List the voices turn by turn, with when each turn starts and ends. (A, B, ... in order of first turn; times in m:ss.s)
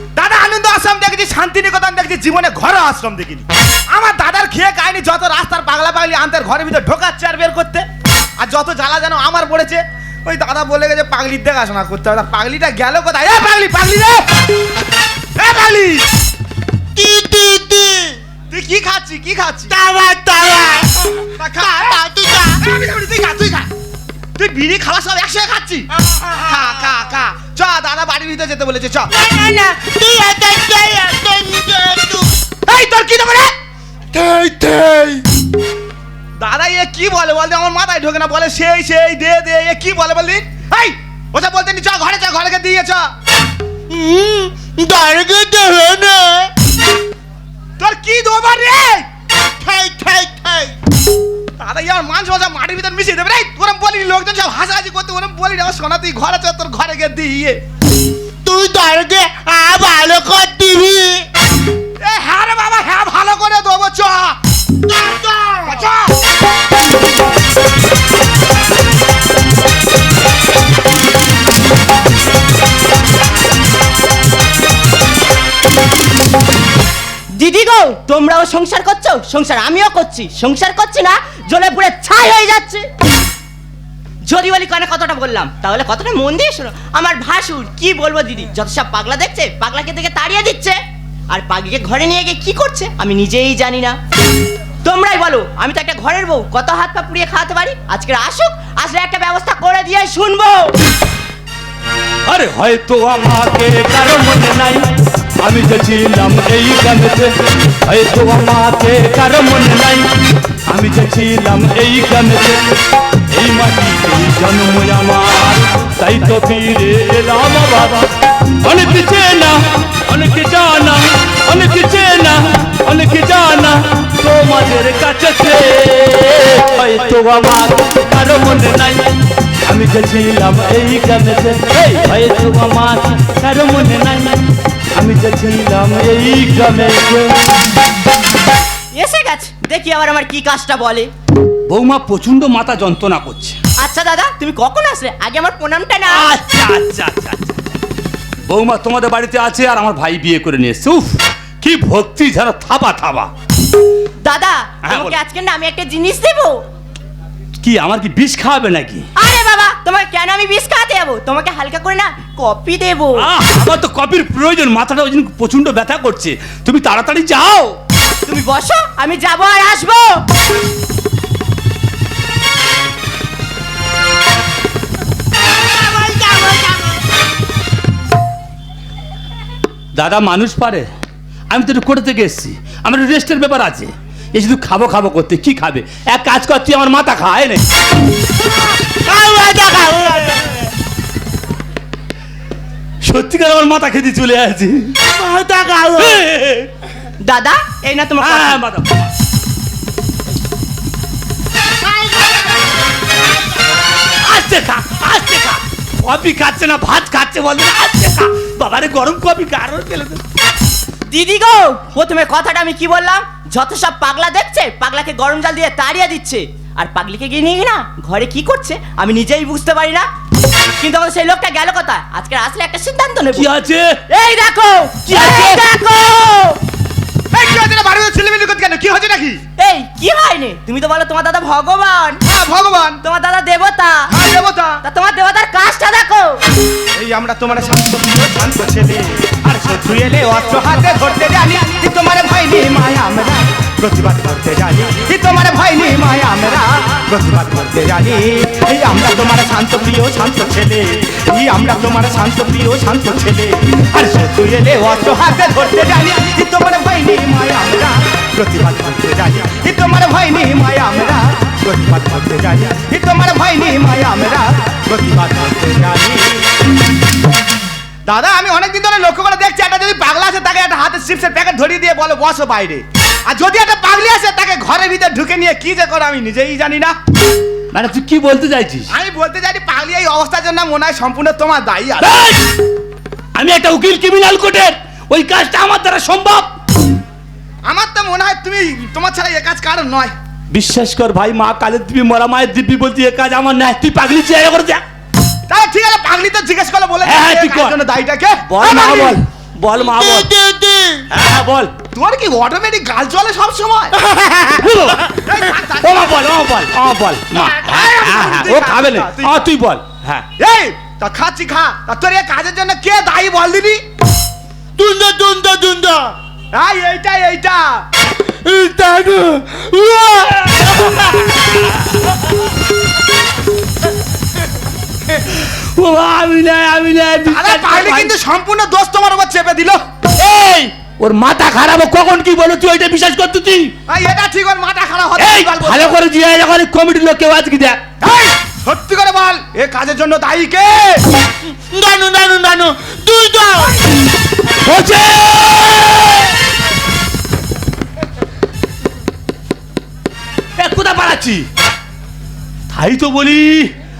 0:00.2-0:07.8 A
0:08.4-0:14.3 A
0:15.4-0:16.0 A
0:17.0-0:18.2 B
0:18.5-0:19.7 A
0:19.7-0:22.6 B
0:21.3-0:21.9 A
0:22.6-0:23.7 A
0:24.4-0:29.1 A
0:29.1-0:32.5 B
0:32.6-0:33.5 A
0:34.1-0:35.3 B
0:36.4-0:43.1 A
0:43.9-0:46.5 B
0:47.8-0:49.0 A
0:49.6-0:50.8 B
0:51.6-0:57.6 A
0:58.4-1:01.2 B
1:02.0-1:04.4 A
1:05.0-1:05.8 B
1:05.7-1:06.1 A
1:17.3-1:22.8 C
1:24.3-1:30.8 C
1:31.3-1:34.0 C
1:34.8-1:40.8 C
1:42.3-1:44.9 D
1:45.4-1:50.1 D
1:50.7-1:52.6 D
1:53.3-2:09.1 D
2:09.6-2:17.4 D
2:18.9-2:21.1 C
2:21.7-2:23.6 D
2:23.8-2:26.3 C
2:26.0-2:27.6 D
2:28.5-2:33.3 D
2:34.2-2:36.6 C
2:34.8-2:35.2 D
2:37.6-2:39.1 D
2:39.2-2:43.2 C
2:43.2-2:47.7 D
2:48.2-2:50.2 C
2:55.9-2:56.8 C
3:00.0-3:00.9 D
3:01.5-3:07.6 D
3:08.8-3:10.6 B
3:13.0-3:15.0 D
3:15.1-3:16.2 B
3:15.9-3:16.7 D
3:17.2-3:18.6 C
3:18.2-3:19.1 D
3:24.2-3:30.2 D
3:31.1-3:40.1 C
3:40.8-3:43.5 C
3:43.3-3:44.0 D
3:44.1-3:46.6 C
3:45.1-3:45.6 D
3:47.3-3:49.4 A
3:49.6-3:52.2 C
3:52.2-3:53.0 A
3:53.0-3:54.1 C
3:54.1-3:54.8 A
3:54.8-3:56.4 C
3:57.0-4:26.4 A
4:28.0-4:37.0 A
4:37.7-4:38.9 D
4:38.9-4:42.2 A
4:42.0-4:42.5 D
4:43.3-4:46.5 D
4:47.6-4:50.1 A
4:50.5-4:54.8 D
4:55.5-4:59.2 A
4:57.0-4:57.8 D
4:58.5-5:00.3 D
4:58.6-4:59.1 B
4:59.8-5:01.1 B
5:01.1-5:01.7 D
5:01.9-5:04.0 A
5:04.0-5:04.6 B
5:04.6-5:05.2 D
5:05.2-5:06.2 A
5:05.8-5:10.2 D
5:07.3-5:09.4 A
5:10.4-5:13.8 A
5:14.8-5:16.1 B
5:16.5-5:17.8 A
5:18.2-5:20.9 B
5:25.2-5:28.1 D
5:27.2-5:29.8 A
5:30.2-5:33.7 D
5:33.9-5:36.0 A
5:35.2-5:37.8 D
5:38.0-5:41.0 A
5:41.4-5:43.8 B
5:44.6-5:46.3 D
5:50.6-5:51.5 D
5:52.7-5:53.7 D